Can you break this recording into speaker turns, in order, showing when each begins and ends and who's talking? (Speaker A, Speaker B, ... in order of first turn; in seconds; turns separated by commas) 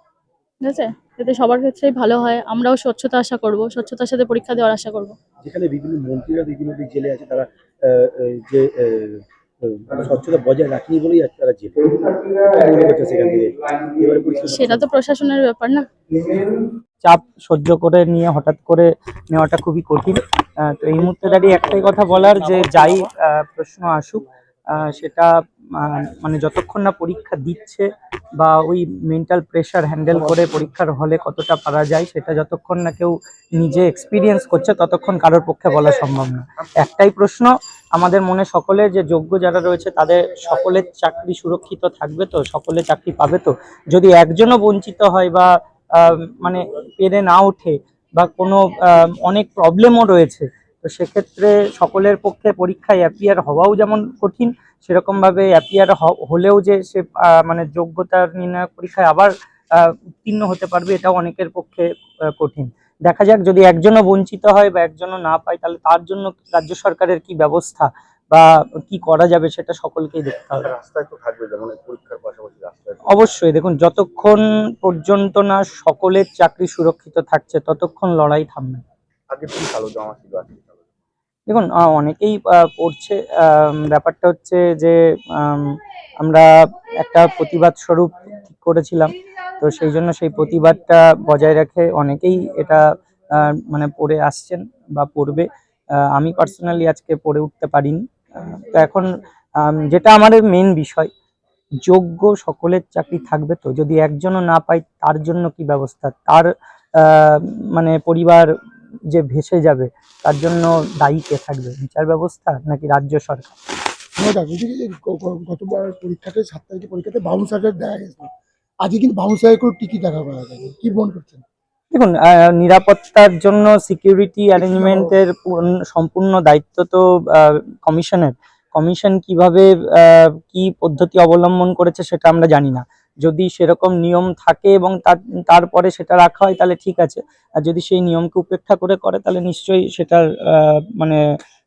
Speaker A: 0.6-5.2, Speaker B: 5.4-11.8, Speaker B: 12.4-14.9, Speaker A: 14.5-15.9, Speaker C: 17.0-27.9, Speaker C: 28.4-70.7, Speaker D: 70.6-73.0, Speaker C: 73.1-78.8, Speaker D: 79.3-80.8, Speaker C: 81.5-92.8, Speaker C: 93.3-95.5, Speaker C: 96.1-99.1, Speaker C: 99.6-101.1, Speaker C: 101.8-106.5, Speaker C: 107.0-108.5, Speaker C: 109.1-113.5, Speaker E: 114.2-118.3, Speaker E: 118.8-121.4, Speaker C: 121.9-125.3, Speaker E: 124.6-125.1, Speaker C: 125.9-141.2